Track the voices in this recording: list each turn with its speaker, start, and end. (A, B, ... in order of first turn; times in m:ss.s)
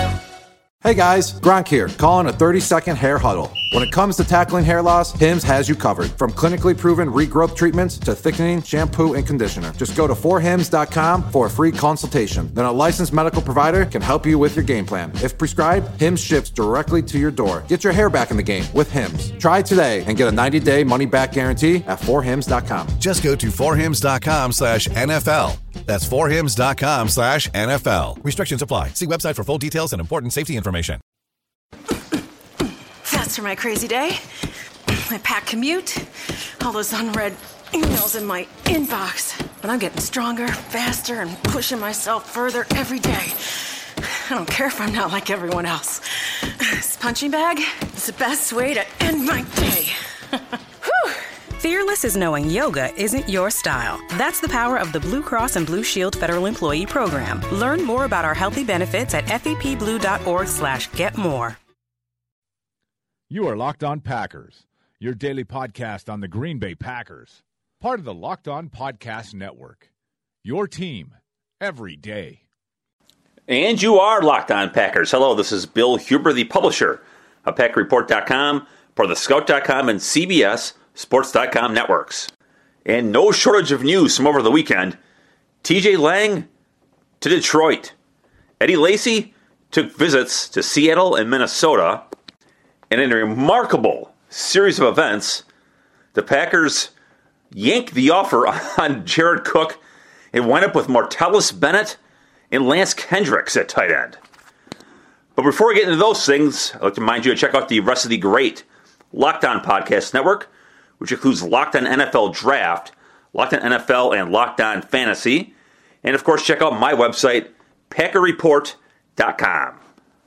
0:00.8-0:23.0 A
0:23.0-0:31.0 B
0:33.0-0:34.2 C
0:34.9-0:51.2 C
0:51.6-1:01.6 D
1:03.3-1:09.8 E
1:10.4-1:12.4 E
1:13.5-1:22.3 F
1:22.8-1:25.0 F
1:25.6-1:26.5 F
1:27.2-1:27.9 F
1:28.6-1:32.0 F
1:32.9-1:35.4 F
1:36.1-1:36.9 F
1:37.5-1:39.8 F
1:40.3-1:42.0 F
1:42.5-1:44.2 F
1:45.4-1:55.5 F
1:56.0-1:59.8 F